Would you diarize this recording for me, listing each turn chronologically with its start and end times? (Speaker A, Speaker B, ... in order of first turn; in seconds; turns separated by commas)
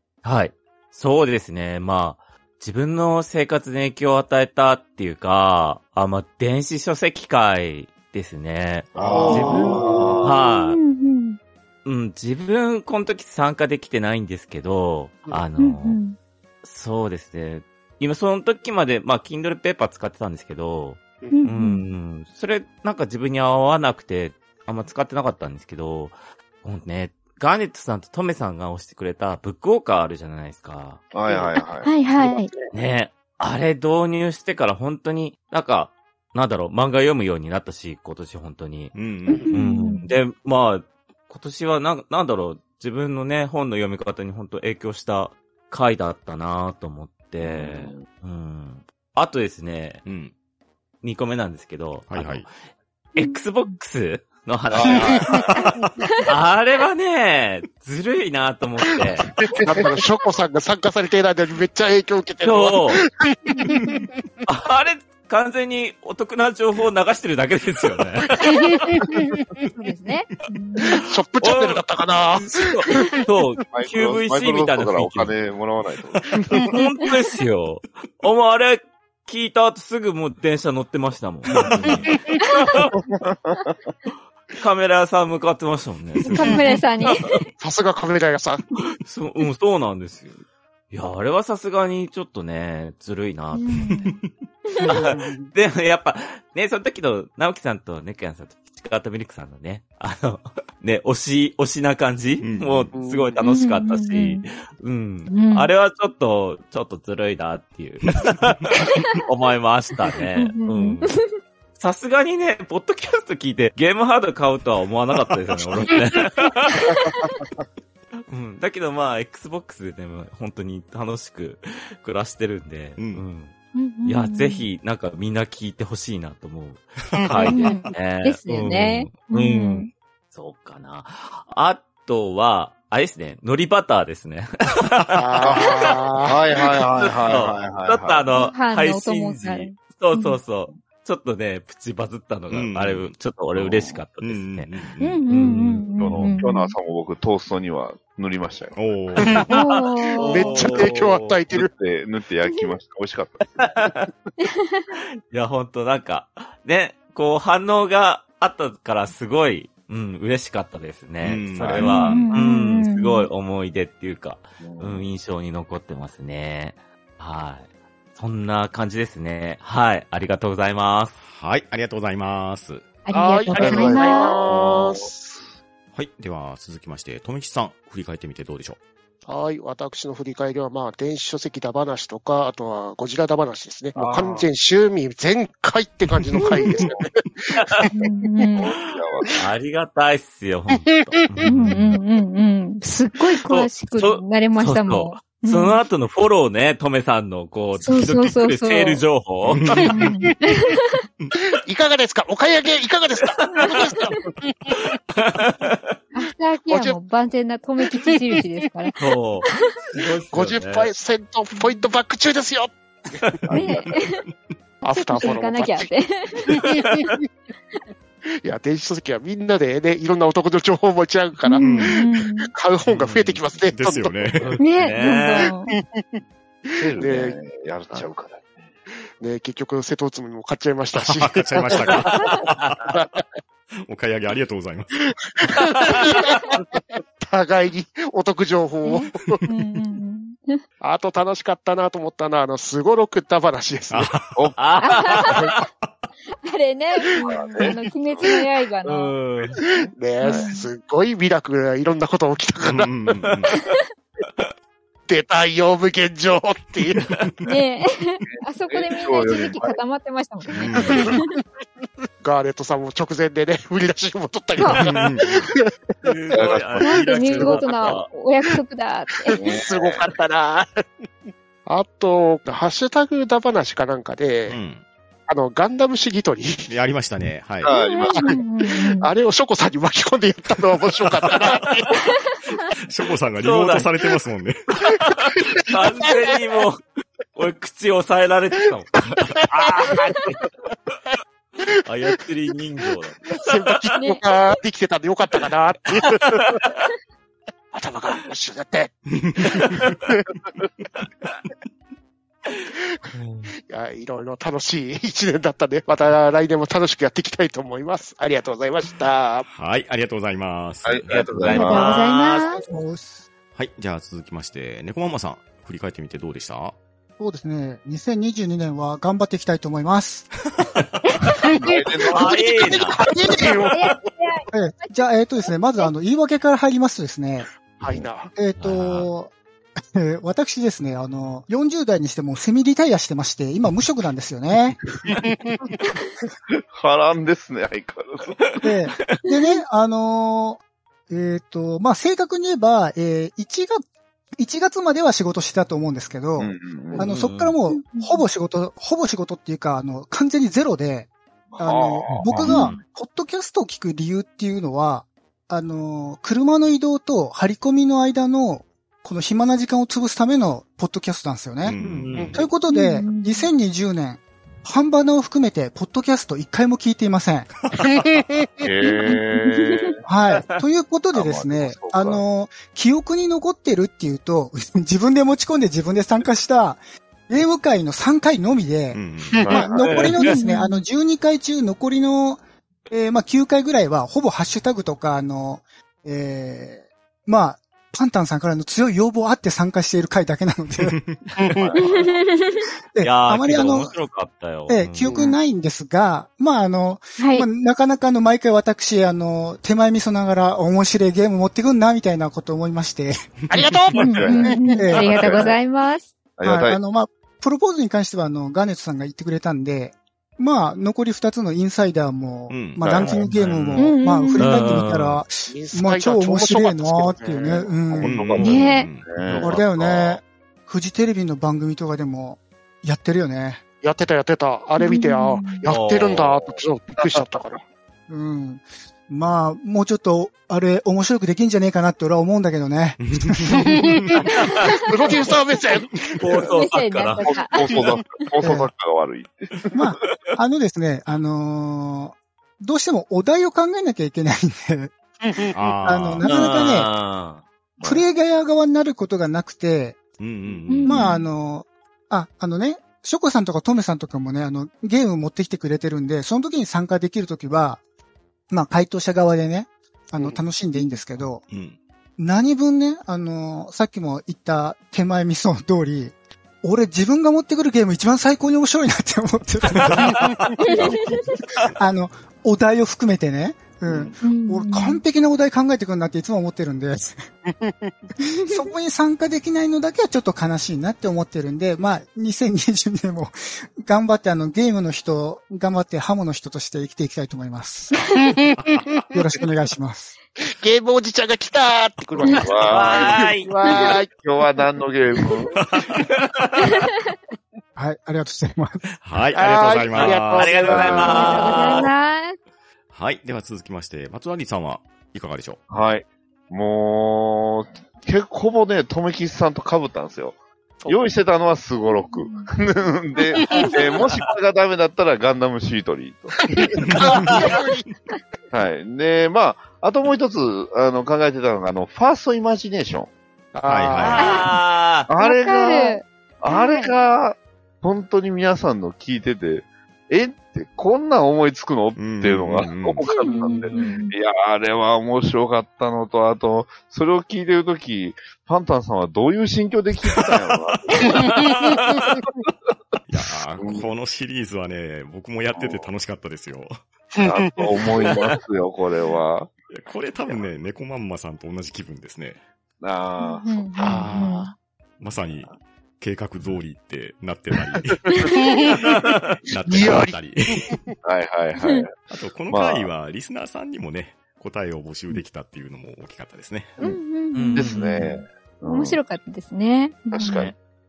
Speaker A: 0.2-10.8, Speaker B: 8.9-10.4, Speaker C: 9.0-10.2, Speaker D: 9.4-9.7, Speaker D: 10.2-11.4, Speaker A: 11.8-16.0, Speaker D: 15.6-16.2, Speaker A: 16.6-31.0, Speaker D: 21.3-21.9, Speaker B: 31.1-32.0, Speaker C: 31.2-32.7, Speaker D: 31.6-32.5, Speaker A: 32.7-38.9, Speaker E: 38.9-39.5, Speaker D: 39.4-40.1, Speaker A: 39.5-50.0, Speaker B: 47.4-48.1, Speaker E: 50.0-50.3, Speaker A: 51.0-52.5, Speaker E: 52.1-52.5, Speaker A: 53.1-55.4, Speaker B: 54.7-55.8, Speaker A: 56.2-59.3, Speaker C: 59.4-63.7, Speaker B: 59.4-59.8, Speaker A: 62.4-63.0, Speaker D: 63.6-64.0, Speaker A: 64.5-68.6, Speaker C: 68.4-69.4, Speaker D: 69.8-71.0, Speaker C: 70.9-73.0, Speaker A: 71.4-71.8, Speaker A: 72.4-75.3, Speaker B: 73.7-76.6, Speaker A: 76.5-82.1, Speaker D: 76.6-77.1, Speaker E: 81.7-82.0, Speaker C: 81.8-82.2, Speaker D: 82.4-82.8, Speaker B: 83.3-83.6, Speaker A: 84.5-86.7, Speaker D: 86.2-87.5, Speaker C: 87.6-88.6, Speaker A: 89.0-90.4, Speaker A: 90.9-93.7, Speaker D: 93.5-94.2, Speaker E: 93.9-94.3, Speaker D: 94.7-95.0, Speaker A: 94.8-111.1, Speaker C: 95.0-95.4, Speaker E: 102.4-102.9, Speaker C: 102.9-103.4, Speaker D: 103.4-104.4, Speaker D: 105.3-105.7, Speaker E: 108.1-108.6, Speaker D: 110.4-111.2, Speaker A: 111.8-117.0, Speaker D: 116.9-117.2, Speaker A: 118.3-136.2, Speaker E: 123.0-123.2, Speaker D: 123.7-124.7, Speaker E: 127.1-127.9, Speaker D: 127.4-129.9, Speaker C: 135.1-136.4, Speaker B: 135.4-135.7, Speaker B: 136.2-138.4, Speaker A: 136.9-144.7, Speaker D: 138.3-140.4, Speaker E: 142.5-143.1, Speaker B: 143.5-144.0, Speaker E: 144.2-145.3, Speaker D: 145.0-146.7, Speaker A: 145.3-146.3, Speaker B: 145.9-148.8, Speaker E: 148.7-149.4, Speaker C: 149.2-149.5, Speaker A: 149.3-151.4, Speaker D: 149.5-150.7, Speaker C: 150.2-151.7, Speaker B: 151.5-154.1, Speaker D: 154.4-154.9, Speaker A: 154.9-171.2, Speaker E: 161.2-162.3, Speaker D: 161.8-163.3, Speaker B: 164.6-165.0, Speaker E: 171.2-173.0, Speaker D: 173.1-174.4, Speaker C: 173.1-175.4, Speaker B: 173.6-175.1, Speaker E: 175.9-178.8, Speaker C: 179.2-187.9, Speaker B: 183.9-184.5, Speaker A: 187.6-187.9, Speaker D: 187.9-188.7, Speaker B: 188.5-189.3, Speaker A: 189.4-191.9, Speaker C: 190.9-191.2, Speaker D: 191.4-195.8, Speaker E: 191.5-191.8, Speaker A: 193.4-199.9, Speaker D: 197.8-199.0, Speaker E: 199.4-200.2, Speaker D: 199.9-200.9, Speaker C: 201.4-204.8, Speaker A: 203.3-204.0, Speaker A: 205.1-205.9, Speaker D: 206.1-209.7, Speaker C: 206.7-207.0, Speaker C: 208.1-208.7, Speaker A: 209.0-210.9, Speaker C: 210.3-213.4, Speaker D: 211.6-211.8, Speaker B: 213.4-214.0, Speaker D: 213.5-214.2, Speaker E: 213.6-214.3, Speaker C: 214.8-215.9, Speaker D: 214.9-216.6, Speaker A: 216.6-216.9, Speaker C: 218.4-224.3, Speaker D: 221.4-222.5, Speaker E: 221.6-222.0, Speaker A: 222.9-223.4, Speaker E: 223.5-224.6, Speaker A: 224.4-225.5, Speaker D: 224.6-225.7, Speaker C: 225.4-227.4, Speaker B: 226.8-228.7, Speaker C: 229.2-233.2, Speaker E: 230.9-232.4, Speaker A: 232.4-232.9, Speaker E: 233.8-234.9, Speaker C: 235.2-239.4, Speaker A: 235.8-236.4, Speaker D: 238.8-240.6, Speaker C: 240.8-244.1, Speaker E: 243.9-244.5, Speaker A: 244.6-245.6, Speaker D: 244.8-245.6, Speaker E: 245.3-245.9, Speaker D: 246.4-249.1, Speaker B: 247.3-248.2, Speaker A: 248.8-249.6, Speaker B: 249.7-250.5, Speaker C: 249.8-253.3, Speaker D: 250.2-250.7, Speaker E: 252.7-253.6, Speaker C: 255.1-257.1, Speaker E: 257.0-257.4, Speaker D: 257.4-261.3, Speaker B: 258.7-259.8, Speaker E: 260.5-261.2, Speaker C: 260.7-261.2, Speaker C: 262.2-266.1, Speaker E: 264.7-265.4, Speaker A: 266.0-268.1, Speaker B: 266.3-267.7, Speaker D: 266.8-269.4, Speaker C: 269.2-271.1, Speaker B: 269.4-270.1, Speaker C: 271.6-274.6, Speaker E: 274.5-274.8, Speaker C: 275.3-276.7, Speaker E: 276.7-277.7, Speaker B: 277.6-278.4, Speaker D: 277.7-279.1, Speaker C: 278.1-282.0, Speaker E: 282.7-284.8, Speaker A: 283.4-283.9, Speaker A: 285.1-286.8, Speaker C: 285.5-286.3, Speaker A: 287.3-290.4, Speaker C: 289.2-290.1, Speaker A: 291.9-293.8, Speaker C: 293.3-296.6, Speaker A: 296.1-296.8, Speaker C: 297.7-300.3, Speaker E: 299.1-300.0, Speaker A: 303.1-303.5, Speaker C: 303.7-309.5, Speaker E: 309.5-311.5, Speaker B: 310.8-311.9, Speaker A: 311.1-312.5, Speaker D: 311.5-312.6, Speaker F: 312.6-313.2, Speaker E: 313.5-316.8, Speaker F: 317.2-320.3, Speaker E: 320.6-320.9, Speaker D: 321.1-321.4, Speaker C: 321.4-323.9, Speaker B: 321.5-322.8, Speaker A: 322.1-323.0, Speaker D: 323.7-325.9, Speaker F: 324.5-327.5, Speaker C: 327.8-328.3, Speaker F: 328.3-334.8, Speaker A: 328.6-329.1, Speaker C: 335.1-335.7, Speaker B: 336.7-338.6, Speaker F: 338.6-343.8, Speaker D: 339.3-339.6, Speaker F: 344.3-361.8, Speaker B: 346.4-347.1, Speaker A: 347.0-347.6, Speaker D: 347.7-348.2, Speaker B: 351.5-352.6, Speaker A: 352.1-352.8, Speaker E: 361.6-362.4, Speaker A: 361.8-362.4, Speaker F: 362.3-367.5, Speaker D: 362.7-363.5, Speaker C: 367.8-368.5, Speaker B: 368.6-370.0, Speaker D: 368.8-369.9, Speaker F: 370.1-391.0, Speaker A: 370.4-370.6, Speaker B: 371.1-372.2, Speaker E: 378.9-379.4, Speaker B: 379.4-380.1, Speaker A: 379.8-380.3, Speaker D: 380.1-380.8, Speaker E: 390.8-391.3, Speaker C: 391.4-391.7, Speaker B: 391.6-392.1, Speaker D: 391.8-392.6, Speaker F: 392.9-394.0, Speaker A: 393.0-395.2, Speaker F: 394.7-403.3, Speaker D: 397.2-397.4, Speaker E: 403.4-404.2, Speaker C: 403.5-405.0, Speaker D: 404.0-406.1, Speaker B: 404.1-405.6, Speaker F: 404.7-405.1, Speaker B: 406.4-406.8, Speaker F: 406.4-418.2, Speaker E: 412.5-413.3, Speaker B: 412.8-413.3, Speaker A: 413.0-413.6, Speaker D: 413.8-414.6, Speaker A: 414.4-415.2, Speaker C: 415.5-418.4, Speaker E: 418.0-419.5, Speaker B: 418.0-420.2, Speaker D: 418.4-418.9, Speaker A: 419.2-419.5, Speaker F: 419.4-423.6, Speaker C: 423.8-427.6, Speaker D: 424.8-425.6, Speaker A: 425.6-426.4, Speaker F: 428.1-433.8, Speaker E: 433.0-434.1, Speaker C: 433.6-436.4, Speaker D: 434.2-435.3, Speaker A: 436.2-437.8, Speaker D: 436.4-437.7, Speaker B: 437.5-439.9, Speaker F: 438.4-438.7, Speaker F: 439.7-444.9, Speaker C: 445.2-445.5, Speaker E: 445.5-446.5, Speaker F: 445.8-446.9, Speaker A: 446.2-447.4, Speaker B: 447.8-448.0, Speaker F: 447.8-450.1, Speaker E: 450.2-451.1, Speaker D: 450.7-451.2, Speaker F: 450.8-457.8, Speaker F: 458.5-461.4, Speaker E: 461.4-461.8, Speaker F: 462.2-470.1, Speaker E: 469.7-470.2, Speaker B: 470.6-471.2, Speaker F: 471.8-477.3, Speaker B: 473.9-474.1, Speaker D: 474.2-475.0, Speaker C: 477.5-477.9, Speaker F: 478.4-488.2, Speaker C: 488.4-489.0, Speaker F: 489.1-490.1, Speaker C: 490.4-494.1, Speaker B: 492.2-495.5, Speaker A: 492.5-493.5, Speaker A: 496.2-496.5, Speaker F: 497.8-498.8, Speaker E: 499.0-501.3, Speaker C: 499.3-501.6, Speaker A: 499.9-501.9, Speaker B: 500.6-501.6, Speaker D: 501.0-502.4, Speaker E: 502.9-505.6, Speaker B: 505.7-510.4, Speaker B: 510.9-516.6, Speaker D: 512.1-512.5, Speaker C: 513.4-513.8, Speaker C: 516.4-517.8, Speaker E: 516.9-517.4, Speaker B: 518.5-523.1, Speaker C: 523.5-524.5, Speaker E: 523.6-524.3, Speaker D: 524.0-524.5, Speaker A: 524.1-525.1, Speaker B: 525.1-541.3, Speaker D: 525.2-526.9, Speaker E: 532.0-533.1, Speaker D: 533.0-534.1, Speaker E: 540.0-541.2, Speaker C: 541.0-541.9, Speaker E: 543.1-546.7, Speaker B: 543.6-543.9, Speaker B: 545.5-545.9, Speaker C: 547.1-547.8, Speaker B: 547.2-549.5, Speaker E: 549.7-552.4, Speaker B: 552.8-554.0, Speaker D: 553.2-554.5, Speaker C: 553.8-554.4, Speaker E: 553.9-554.5, Speaker E: 555.0-558.4, Speaker C: 558.1-558.8, Speaker A: 558.8-559.3, Speaker E: 559.5-560.8, Speaker C: 559.6-560.9, Speaker B: 561.0-562.9, Speaker D: 561.6-561.8, Speaker E: 562.1-566.8, Speaker D: 566.8-570.4, Speaker A: 567.3-568.1, Speaker B: 567.5-569.0, Speaker B: 570.1-570.5, Speaker A: 570.2-570.5